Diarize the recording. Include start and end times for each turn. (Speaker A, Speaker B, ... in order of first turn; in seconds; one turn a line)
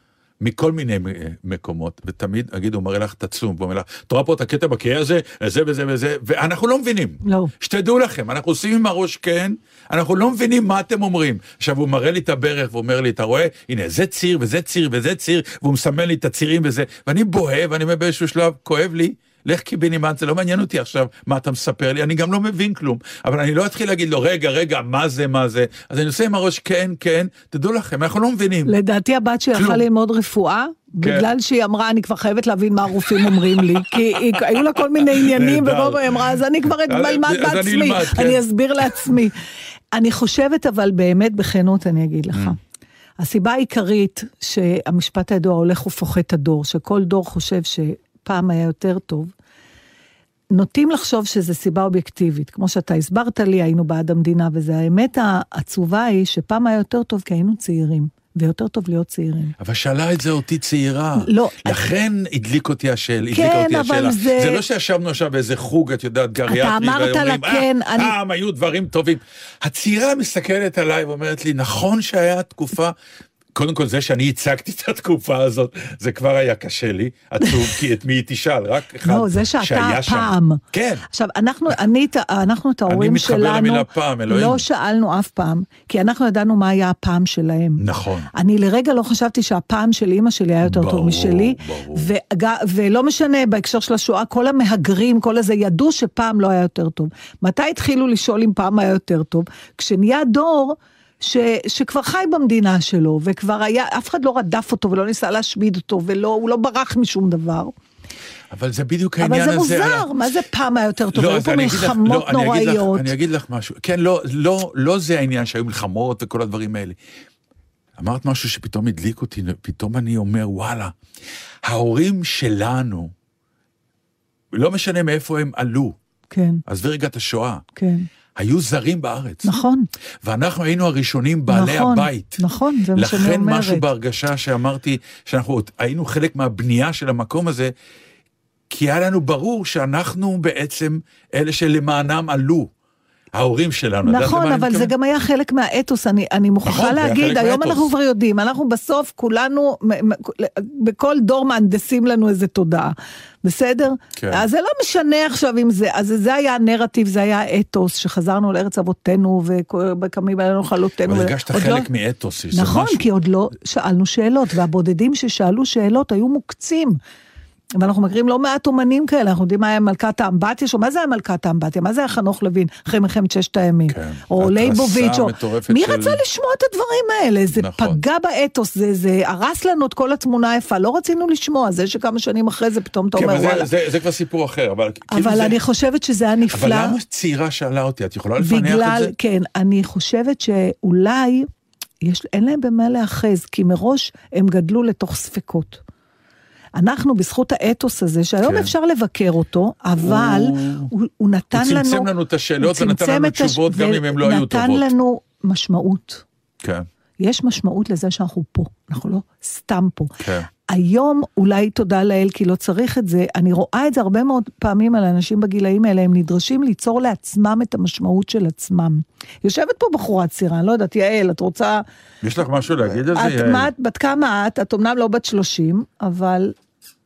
Speaker A: 0.4-28.7
Speaker B: 7.2-7.5
Speaker B: 28.7-39.4
Speaker A: 29.5-29.9
Speaker A: 31.0-31.3
Speaker A: 33.6-38.4
Speaker B: 39.9-42.6
Speaker A: 42.3-42.6
Speaker B: 43.2-49.3
Speaker B: 50.5-59.5
Speaker A: 59.6-73.0
Speaker B: 61.2-61.8
Speaker B: 63.3-64.6
Speaker B: 66.5-68.1
Speaker A: 73.5-81.1
Speaker B: 79.0-80.6
Speaker B: 81.1-87.8
Speaker A: 82.9-84.7
Speaker A: 87.8-88.3
Speaker B: 88.3-107.7
Speaker A: 90.6-92.1
Speaker A: 108.5-110.1
Speaker B: 109.2-113.1
Speaker A: 111.1-117.0
Speaker A: 118.0-120.9
Speaker A: 121.7-123.1
Speaker A: 124.5-126.0
Speaker B: 126.3-126.6
Speaker A: 126.7-127.6
Speaker B: 127.8-128.1
Speaker A: 128.4-129.6
Speaker B: 129.4-129.9
Speaker A: 130.2-132.4
Speaker B: 131.5-133.9
Speaker A: 132.9-137.7
Speaker A: 138.7-142.7
Speaker A: 143.3-144.9
Speaker B: 144.1-161.9
Speaker A: 146.7-147.9
Speaker A: 154.2-154.4
Speaker A: 161.1-163.1
Speaker B: 162.5-167.0
Speaker B: 167.8-183.7
Speaker A: 173.9-176.2
Speaker A: 177.5-178.0
Speaker A: 183.2-185.6
Speaker B: 185.1-187.0
Speaker A: 186.5-189.1
Speaker B: 188.4-191.5
Speaker B: 192.0-195.8
Speaker B: 196.8-202.1
Speaker A: 198.4-198.7
Speaker A: 200.0-200.9
Speaker A: 201.5-204.9
Speaker B: 202.6-206.2
Speaker B: 207.2-210.1
Speaker A: 210.2-210.5
Speaker B: 210.7-221.8
Speaker A: 222.2-223.7
Speaker B: 223.1-226.5